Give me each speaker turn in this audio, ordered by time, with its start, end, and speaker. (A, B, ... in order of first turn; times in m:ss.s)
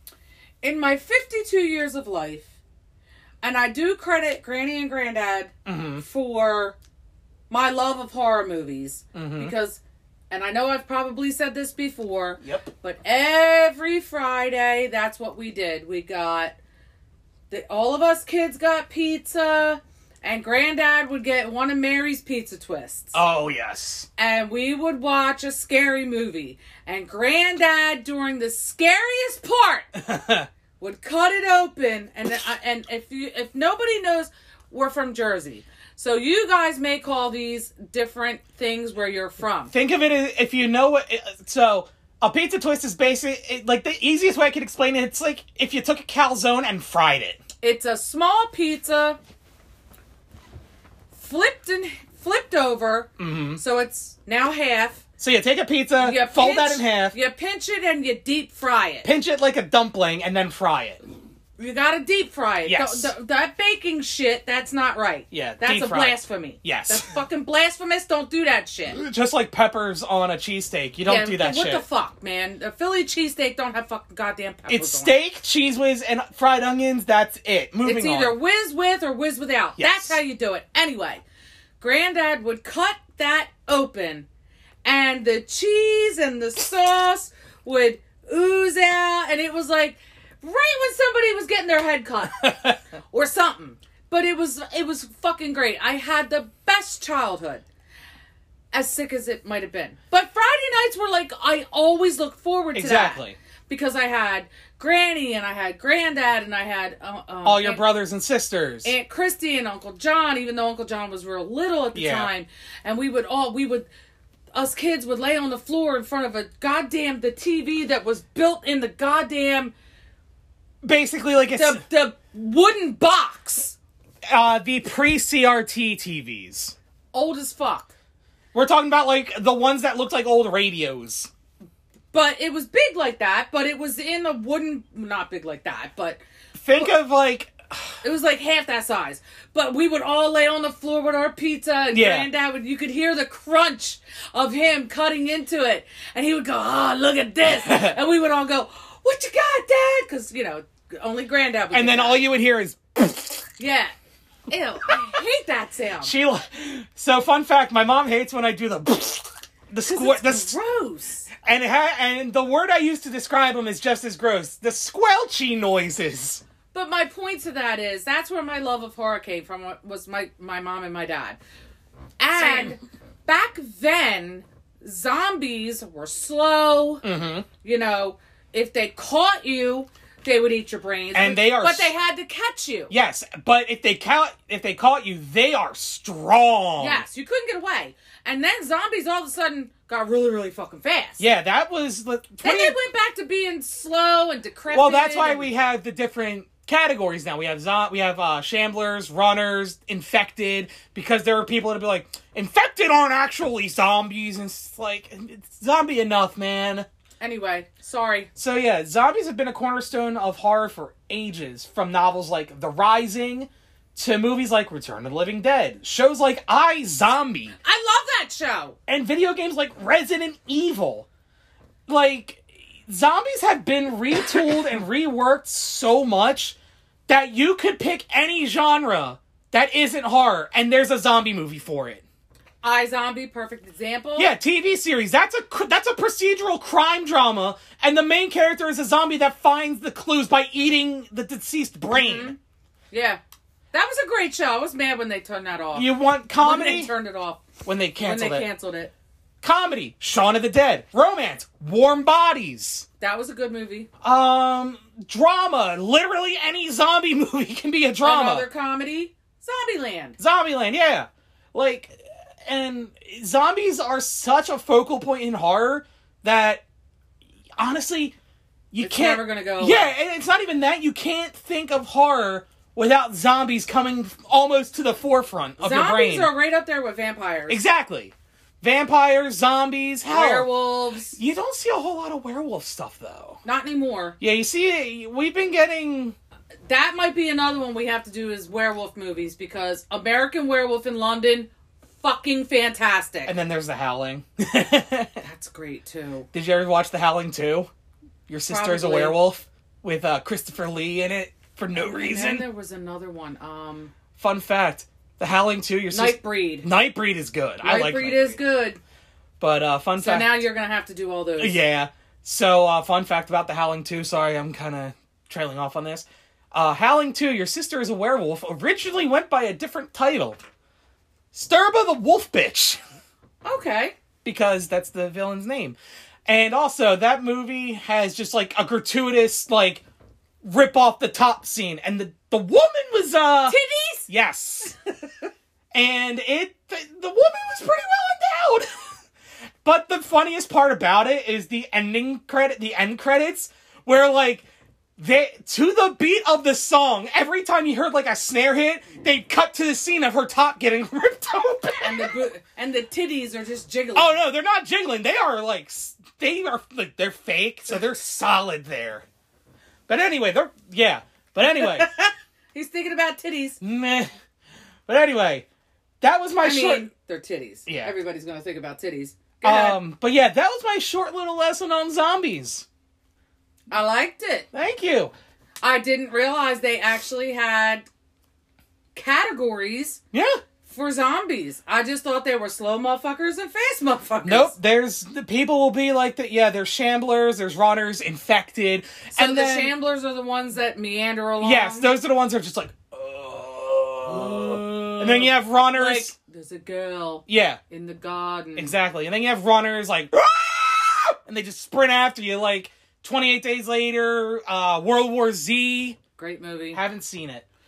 0:00.6-0:02.5 A
0:03.4-0:06.8 A
0:05.6-0:06.0 B
0:07.5-0:16.6 A
0:09.1-0:09.5 B
0:12.4-0:12.7 B
0:17.5-0:23.2 A
0:23.1-0:24.1 B
0:24.2-0:29.9 A
0:30.0-0:30.5 B
0:30.8-0:39.7 A
0:39.7-0:47.4 B
0:47.6-0:49.2 A
0:51.1-0:55.0 A
0:53.2-0:53.6 B
0:55.2-0:57.2 B
0:56.0-0:59.1 A
0:59.0-1:01.0 B
1:01.6-1:09.0 A
1:02.6-1:03.1 B
1:05.3-1:07.2 B
1:08.9-1:11.8 B
1:11.1-1:15.1 A
1:14.7-1:18.4 B
1:17.8-1:21.2 A
1:19.8-1:20.2 B
1:21.8-1:24.3 A
1:24.8-1:37.7 A
1:32.4-1:32.8 B
1:38.7-1:47.8 A
1:42.7-1:43.4 B
1:47.4-1:48.9 B
1:48.8-1:53.9 A
1:51.9-1:52.3 B
1:54.5-1:59.7 A
2:00.8-2:01.8 B
2:01.5-2:03.8 A
2:04.3-2:06.8 B
2:07.1-2:07.9 A
2:08.5-2:11.3 B
2:12.1-2:16.2 A
2:16.6-2:17.6 B
2:18.0-2:32.2 A
2:21.9-2:22.3 B
2:27.4-2:28.0 B
2:31.7-2:33.5 B
2:33.6-2:33.9 A
2:34.5-2:36.1 A
2:36.0-2:40.6 B
2:39.9-2:41.3 A
2:41.4-2:46.4 B
2:46.7-2:51.4 A
2:52.2-2:57.0 A
2:52.3-2:52.8 B
2:57.0-2:57.5 B
2:57.6-3:02.9 A
3:01.1-3:01.9 B
3:02.9-3:07.0 B
3:06.8-3:11.2 A
3:11.2-3:12.8 B
3:12.4-3:15.5 A
3:14.7-3:26.9 B
3:27.2-3:28.3 A
3:28.4-3:37.6 B
3:37.6-3:38.8 A
3:38.9-3:41.1 B
3:41.9-3:46.6 B
3:47.1-3:52.0 B
3:52.6-3:54.4 A
3:54.2-4:02.3 B
4:01.9-4:02.4 A
4:02.9-4:03.2 A
4:03.7-4:08.9 A
4:05.7-4:06.9 B
4:07.6-4:08.5 B
4:09.4-4:12.9 B
4:13.0-4:13.9 A
4:14.0-4:18.5 B
4:18.0-4:20.2 A
4:20.2-4:26.6 B
4:27.6-4:28.2 B
4:28.7-4:36.3 B
4:28.8-4:29.9 A
4:35.6-4:37.6 A
4:37.5-4:40.5 B
4:40.1-4:41.2 A
4:41.2-4:43.4 B
4:43.4-4:44.2 A
4:44.2-4:46.2 B
4:46.7-4:53.3 A
4:53.3-4:55.2 B
4:55.2-4:56.3 A
4:56.3-4:57.7 B
4:58.3-5:02.5 B
4:58.5-4:59.2 A
5:01.7-5:03.9 A
5:04.2-5:08.4 B
5:05.9-5:06.7 A
5:07.6-5:08.8 A
5:09.4-5:10.4 B
5:10.0-5:11.6 A
5:11.4-5:20.4 B
5:21.3-5:22.8 B
5:23.4-5:24.0 A
5:24.2-5:25.8 B
5:26.3-5:29.8 B
5:30.4-5:33.6 B
5:33.5-5:34.1 A
5:34.1-5:34.8 B
5:35.7-5:38.7 B
5:39.6-5:52.2 B
5:51.8-5:54.2 A
5:53.9-5:59.0 B
5:59.9-6:01.9 B
6:01.6-6:03.6 A
6:03.6-6:04.1 B
6:04.9-6:05.5 B
6:06.0-6:06.9 B
6:06.4-6:09.8 A
6:07.7-6:07.9 B
6:09.4-6:12.7 B
6:13.7-6:14.5 A
6:14.5-6:15.1 B
6:15.6-6:17.9 A
6:19.0-6:20.0 A
6:20.1-6:20.4 B
6:20.7-6:24.6 A
6:24.2-6:29.8 B
6:29.1-6:31.9 A
6:31.4-6:36.1 B
6:34.1-6:38.8 A
6:37.3-6:37.6 B
6:38.6-6:46.0 B
6:46.2-6:46.8 A
6:46.7-6:47.4 B